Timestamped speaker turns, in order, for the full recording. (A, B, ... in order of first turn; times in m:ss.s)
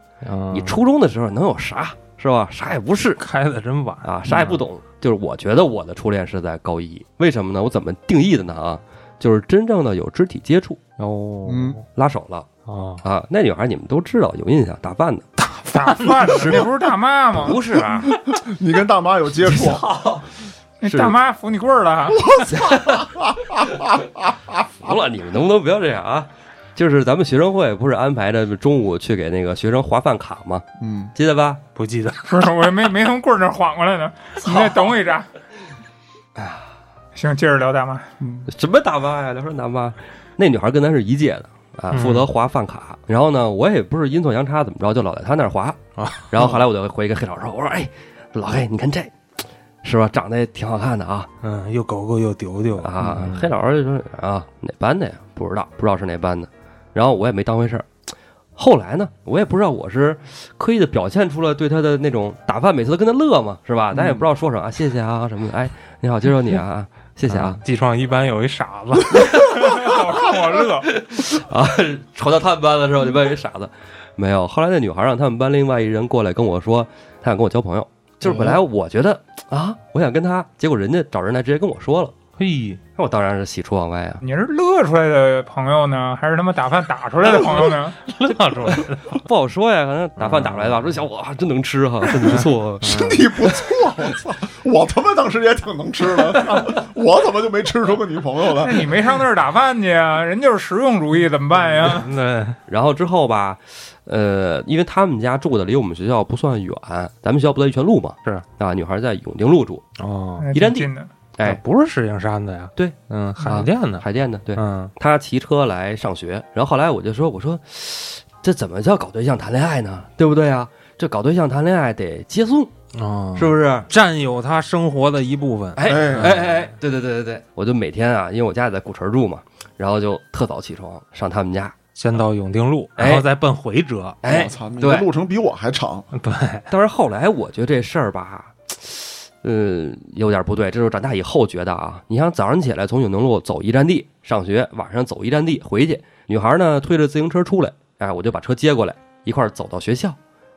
0:00.2-0:00.8 A
0:00.5-0:03.2 B
0:03.2-0:04.6 A
0:04.0-0:10.8 B
0:11.0-0:11.8 A
0:11.4-0:11.8 C
0:11.9-0:12.5 B
0:12.6-0:13.0 A
0:13.0-0:15.3 B
0:15.4-0:16.7 A
0:15.7-0:17.6 D
0:17.3-0:18.2 B
0:18.2-0:19.8 C
0:19.4-0:20.2 B
0:20.8-0:22.4 D
0:20.8-0:21.2 B
0:22.2-0:24.6 C
0:22.5-0:23.2 B
0:24.8-0:31.6 B
0:30.8-0:31.1 C
0:31.8-0:32.3 A
0:32.3-0:35.3 D
0:34.4-0:34.9 B
0:36.4-0:36.6 B
0:37.1-0:38.1 D
0:38.2-0:38.5 C
0:38.5-0:45.8 B
0:41.9-0:42.3 A
0:46.0-0:46.3 A
0:46.3-0:49.1 B
0:49.8-0:51.3 B
0:51.4-0:53.5 A
0:52.8-0:57.9 B
0:58.6-1:07.6 B
1:03.9-1:04.2 C
1:07.3-1:09.4 A
1:09.3-1:10.9 D
1:09.5-1:10.0 B
1:10.8-1:22.2 B
1:22.4-1:22.8 A
1:23.0-1:24.2 B
1:24.2-1:28.0 D
1:28.0-1:29.2 A
1:28.6-1:33.1 B
1:30.2-1:31.0 A
1:32.1-1:33.2 A
1:32.8-1:38.9 C
1:38.5-1:42.1 D
1:41.8-1:42.6 A
1:42.7-1:49.8 B
1:50.0-1:50.5 A
1:50.4-1:51.1 D
1:50.5-1:51.6 B
1:51.4-1:54.9 A
1:52.8-2:02.7 B
2:02.9-2:06.7 A
2:03.3-2:03.9 B
2:05.8-2:11.8 B
2:05.8-2:06.4 C
2:12.0-2:14.4 A
2:13.0-2:13.3 B
2:14.2-2:15.1 B
2:14.2-2:16.1 C
2:16.1-2:16.7 A
2:16.7-2:30.2 B